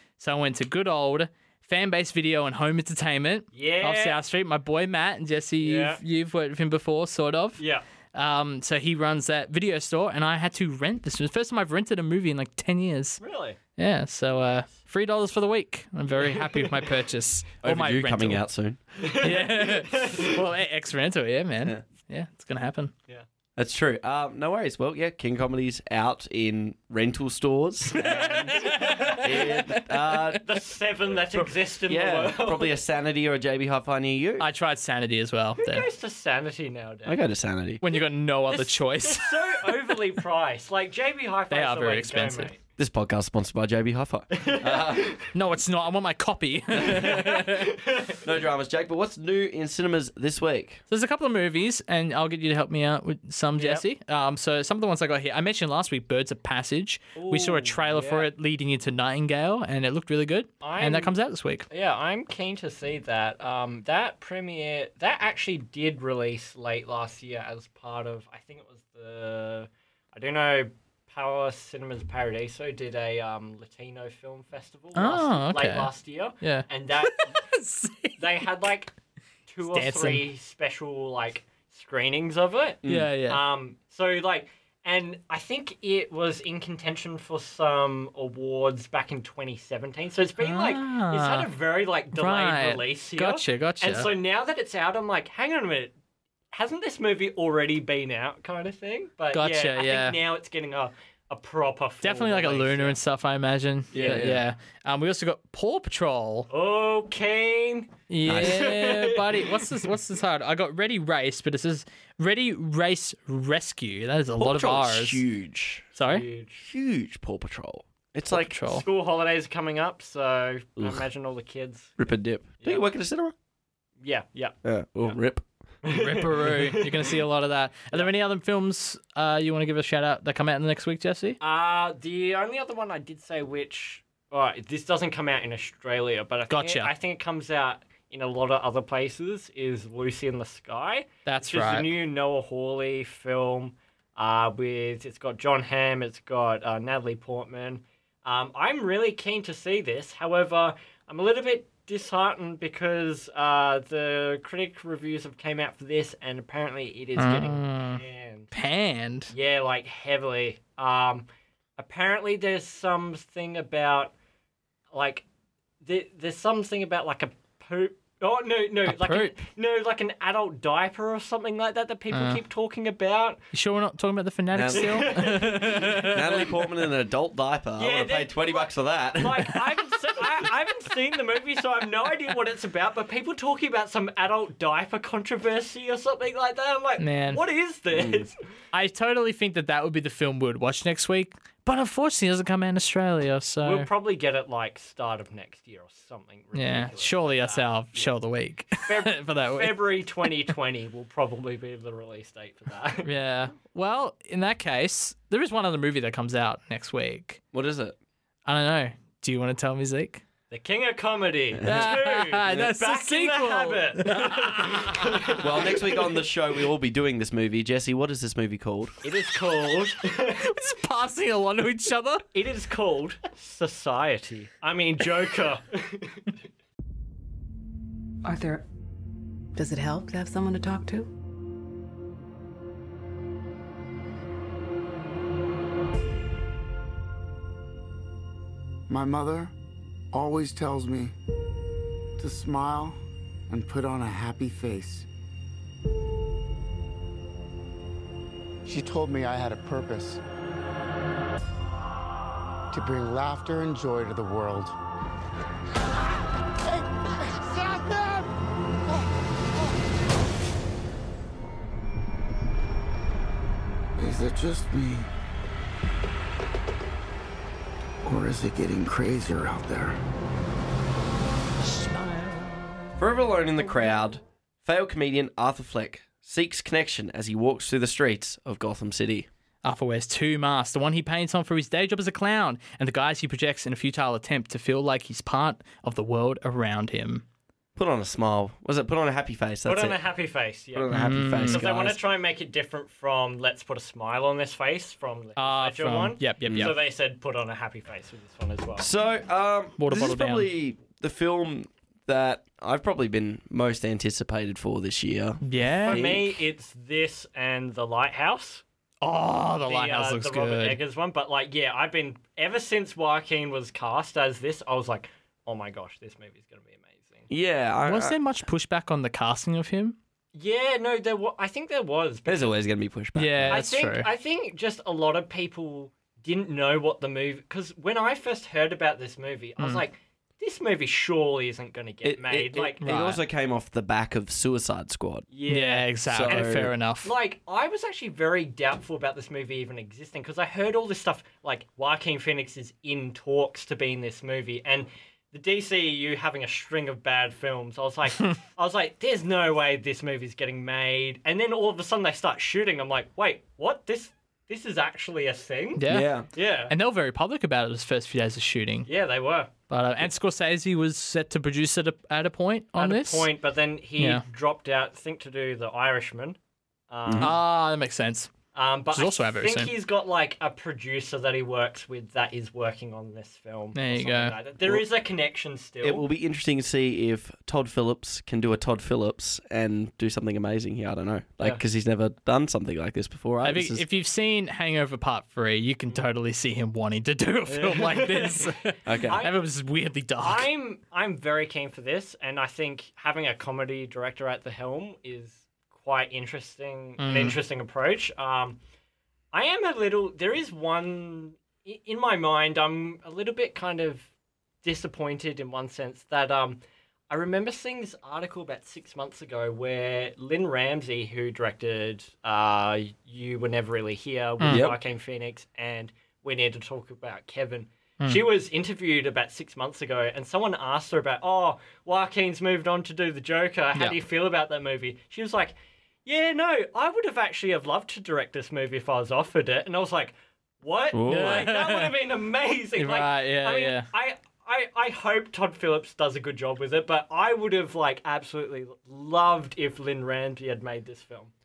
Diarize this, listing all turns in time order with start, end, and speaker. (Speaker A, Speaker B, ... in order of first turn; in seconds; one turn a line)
Speaker A: 0.2-7.6
Speaker B: 3.5-4.2
Speaker B: 5.6-6.0
Speaker B: 7.6-7.8
Speaker A: 8.1-13.2
Speaker B: 13.2-13.6
Speaker A: 13.8-18.4
Speaker B: 16.2-16.9
Speaker C: 17.6-19.3
Speaker B: 19.0-20.4
Speaker A: 19.2-22.9
Speaker C: 23.6-30.4
Speaker A: 28.1-29.7
Speaker B: 29.0-29.3
Speaker B: 30.4-32.8
Speaker C: 31.3-34.5
Speaker A: 34.4-35.9
Speaker B: 35.6-37.2
Speaker C: 37.1-37.8
Speaker A: 37.8-39.9
Speaker B: 38.5-42.6
Speaker A: 41.5-42.5
Speaker C: 42.8-45.2
Speaker B: 44.3-45.3
Speaker A: 45.3-47.8
Speaker C: 46.8-47.2
Speaker B: 46.9-48.2
Speaker C: 48.2-50.8
Speaker A: 50.9-61.7
Speaker B: 53.6-53.8
Speaker B: 57.2-58.3
Speaker B: 60.6-61.1
Speaker B: 61.7-77.5
Speaker A: 75.0-78.4
Speaker B: 78.2-78.9
Speaker B: 79.5-96.0
Speaker A: 79.7-80.2
Speaker C: 82.8-83.1
Speaker A: 82.9-83.4
Speaker A: 90.4-91.5
Speaker A: 92.2-94.1
Speaker B: 96.5-103.0
Speaker A: 99.3-100.2
Speaker A: 102.0-106.5
Speaker C: 103.9-104.4
Speaker B: 106.5-109.9
Speaker A: 108.1-115.2
Speaker C: 108.3-108.7
Speaker C: 114.4-115.9
Speaker A: 116.0-116.2
Speaker B: 116.1-116.7
Speaker C: 116.6-118.6
Speaker A: 118.3-118.8
Speaker B: 118.5-121.9
Speaker C: 120.8-121.1
Speaker C: 122.0-123.3
Speaker B: 124.0-125.2
Speaker C: 124.6-125.5
Speaker B: 125.8-127.2
Speaker A: 125.9-131.4
Speaker B: 131.4-158.5
Speaker A: 136.5-136.9
Speaker A: 141.3-141.9
Speaker A: 157.2-159.3
Speaker B: 159.3-161.3
Speaker B: 161.8-164.1
Speaker B: 164.9-165.3
Speaker B: 165.8-173.5
Speaker A: 168.9-169.3
Speaker A: 172.1-172.4
Speaker A: 173.5-176.4
Speaker C: 174.5-179.5
Speaker B: 174.7-176.5
Speaker B: 177.8-188.4
Speaker A: 187.0-187.4
Speaker C: 187.9-188.3
Speaker A: 188.7-193.9
Speaker B: 193.6-198.1
Speaker A: 196.6-200.3
Speaker B: 198.7-203.1
Speaker A: 203.0-207.4
Speaker C: 207.5-208.0
Speaker A: 208.5-210.2
Speaker B: 210.5-216.2
Speaker C: 211.6-211.9
Speaker A: 211.7-215.4
Speaker C: 215.4-219.0
Speaker B: 219.0-220.5
Speaker A: 220.4-222.3
Speaker B: 222.3-226.3
Speaker D: 228.2-228.7
Speaker D: 229.6-231.1
Speaker E: 238.9-239.5
Speaker E: 240.1-241.1
Speaker E: 242.2-243.0
Speaker E: 243.5-245.1
Speaker E: 248.7-250.2
Speaker E: 252.7-254.8
Speaker E: 256.7-258.3
Speaker E: 264.0-265.1
Speaker E: 268.0-270.0
Speaker C: 273.0-279.3
Speaker A: 279.6-287.2
Speaker C: 287.8-290.0
Speaker B: 289.6-298.9
Speaker C: 290.7-292.0
Speaker A: 290.9-291.6
Speaker A: 295.4-296.8
Speaker C: 296.5-296.7
Speaker C: 298.8-306.4
Speaker A: 299.8-300.5
Speaker A: 305.4-306.2
Speaker B: 305.9-308.6
Speaker A: 309.0-310.8
Speaker B: 309.7-317.3
Speaker C: 317.3-318.2
Speaker A: 317.9-320.0
Speaker B: 320.4-322.5
Speaker C: 322.3-323.6
Speaker A: 323.1-324.1
Speaker B: 323.5-332.9
Speaker C: 332.0-335.3
Speaker A: 332.8-333.2
Speaker B: 335.3-356.7
Speaker A: 335.5-337.1
Speaker C: 336.1-336.7
Speaker A: 355.8-356.1
Speaker C: 355.9-356.3
Speaker A: 356.7-358.9
Speaker B: 358.9-359.5
Speaker A: 359.7-363.3
Speaker B: 362.8-366.4
Speaker A: 364.0-364.2
Speaker B: 366.9-367.4
Speaker C: 367.1-367.3
Speaker A: 367.2-368.3
Speaker B: 368.5-376.1
Speaker A: 368.9-369.7
Speaker A: 373.8-374.4
Speaker C: 375.8-383.9
Speaker A: 383.4-390.5
Speaker B: 387.5-388.5
Speaker C: 388.9-389.2
Speaker B: 389.1-389.5
Speaker B: 390.2-398.6
Speaker A: 397.0-397.4
Speaker B: 399.3-404.1
Speaker B: 404.6-441.3
Speaker A: 414.4-414.7
Speaker C: 414.5-414.8
Speaker C: 430.9-431.5
Speaker A: 431.1-431.9
Speaker A: 432.8-433.9